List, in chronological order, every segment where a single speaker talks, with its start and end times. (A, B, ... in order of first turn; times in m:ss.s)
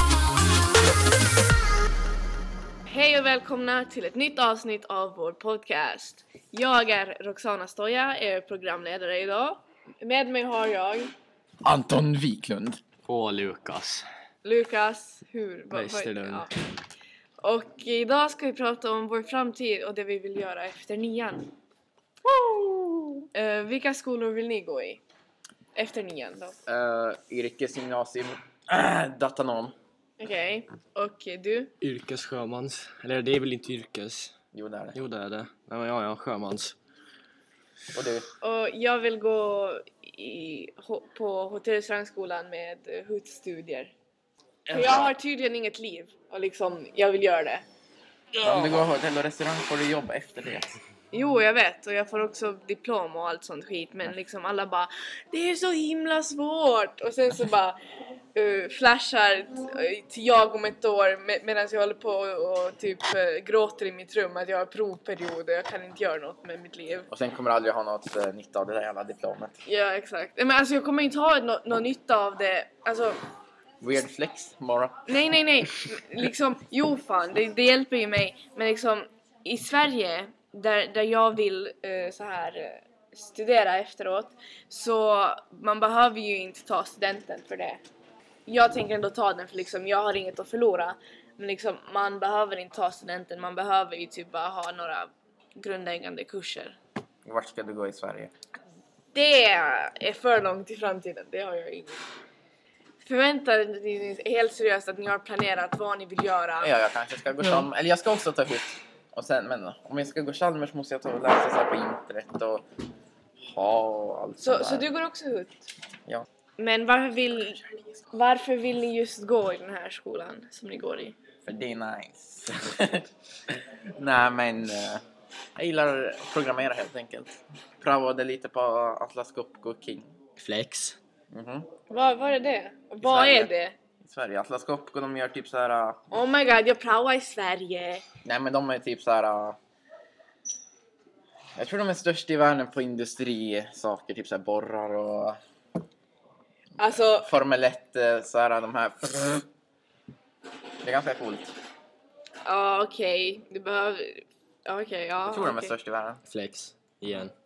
0:02.9-0:11.1 A
0:11.6-0:12.8 B
0:13.0-0:14.0 C
0:14.4-0:16.5 A
0:15.7-0:16.5 C
0:17.4-0:21.5 A
0:23.3-0:25.0 A
0:25.7-0:26.6 A
0:26.7-0:29.7 B
0:30.2-0:31.7 A
0:31.8-0:34.3 C
0:34.5-0:35.0 B
0:34.9-0:36.8 C
0:37.9-0:38.3 B
0:38.4-0:43.9 A
0:44.7-0:45.0 C
0:44.7-0:47.6 A
0:48.4-0:48.9 C
0:48.4-0:50.8 B
0:51.1-0:57.8 A
0:58.3-1:07.1 A
1:07.1-1:09.6 B
1:09.6-1:13.2 A
1:13.8-1:15.0 B
1:15.1-1:27.8 A
1:28.5-1:36.8 A
1:37.2-1:38.3 B
1:39.1-1:42.0 A
1:43.0-1:46.7 A
1:46.6-1:52.6 B
1:53.4-1:54.8 B
1:54.4-1:55.7 A
1:56.6-2:01.2 A
2:01.4-2:03.1 B
2:04.0-2:05.0 B
2:05.6-2:10.1 B
2:10.4-2:11.0 C
2:11.3-2:11.7 B
2:11.9-2:13.8 A
2:13.0-2:16.0 B
2:16.1-2:18.0 A
2:18.2-2:19.6 B
2:21.6-2:25.4 B
2:26.8-2:27.3 A
2:27.0-2:29.4 B
2:30.8-2:31.5 B
2:32.4-2:35.7 A
2:35.2-2:36.2 B
2:36.3-2:37.3 C